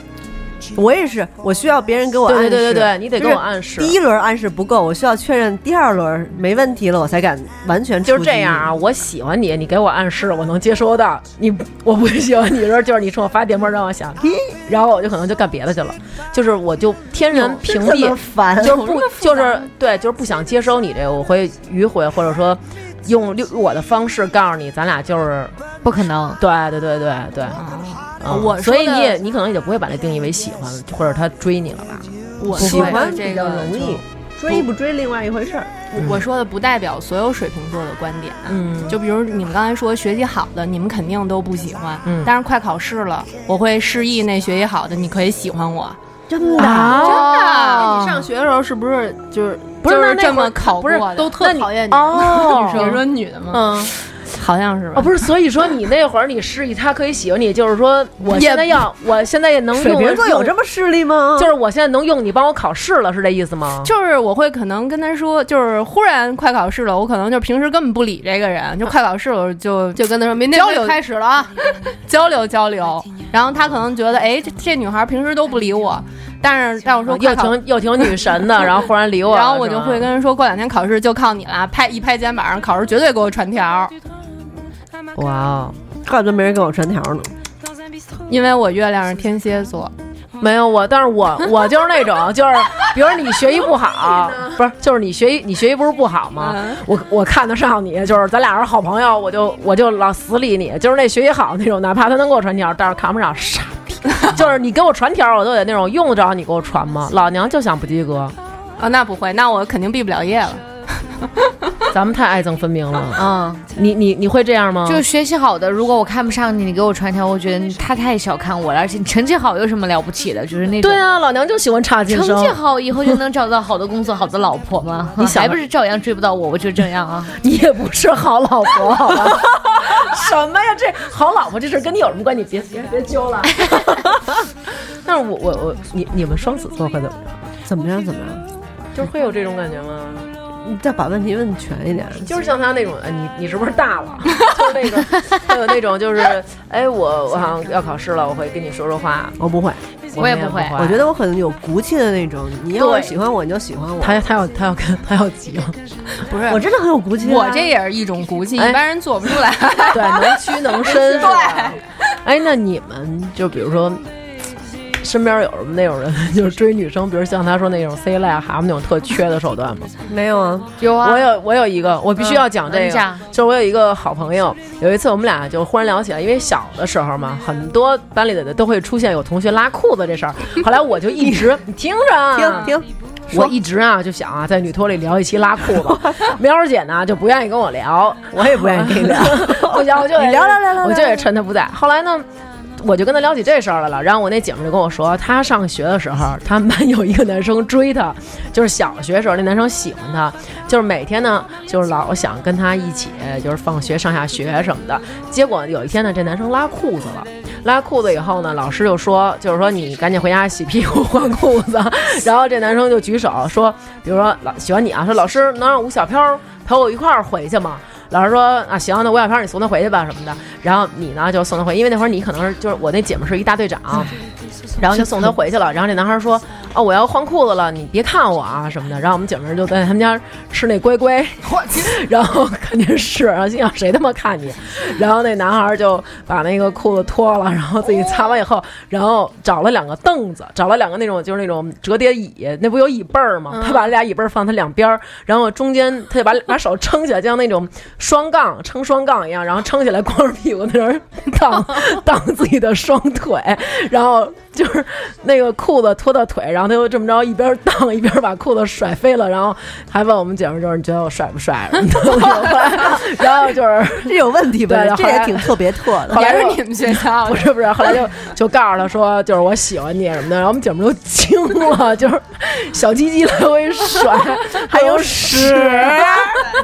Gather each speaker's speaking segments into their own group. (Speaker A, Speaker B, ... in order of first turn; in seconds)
Speaker A: 0.7-8.7, 17.3-18.9, 32.5-35.7, 46.3-47.0, 59.7-61.5, 86.0-87.3, 137.7-138.4, 140.6-142.3, 149.4-149.8, 150.8-154.2, 156.5-157.7, 170.1-170.7, 182.3-183.5, 185.9-186.2, 188.3-191.3, 264.0-266.2, 274.7-276.4
Speaker B: 2.2-4.0, 8.0-25.5, 26.4-27.6, 28.2-33.0, 36.0-36.2, 38.5-39.0, 42.0-42.3, 46.6-48.1, 49.8-53.9, 54.9-60.5, 61.4-63.9, 77.1-80.1, 85.2-85.8, 90.4-108.3, 111.9-115.0, 120.8-123.2, 125.2-125.6, 127.4-134.2, 135.0-137.3, 138.9-140.3, 142.2-149.4, 150.1-151.1, 152.8-153.2, 154.0-155.8, 159.9-164.0, 165.0-169.9, 171.0-182.8, 183.3-192.2, 192.8-224.2, 224.8-265.6, 266.1-276.5
Speaker C: 18.7-19.6, 27.5-29.2, 32.4-34.0, 35.9-46.0, 47.0-48.0, 49.9-51.4, 52.4-55.1, 63.8-77.6, 79.2-83.9, 88.3-89.9, 96.4-96.8, 108.8-110.6, 156.3-156.6, 157.2-161.8, 266.1-267.5
Speaker D: 25.8-26.4, 113.2-113.6, 114.8-121.0, 122.1-127.3, 150.2-150.8, 170.8-171.3, 172.2-173.2
Speaker E: 47.0-53.0, 70.0-71.5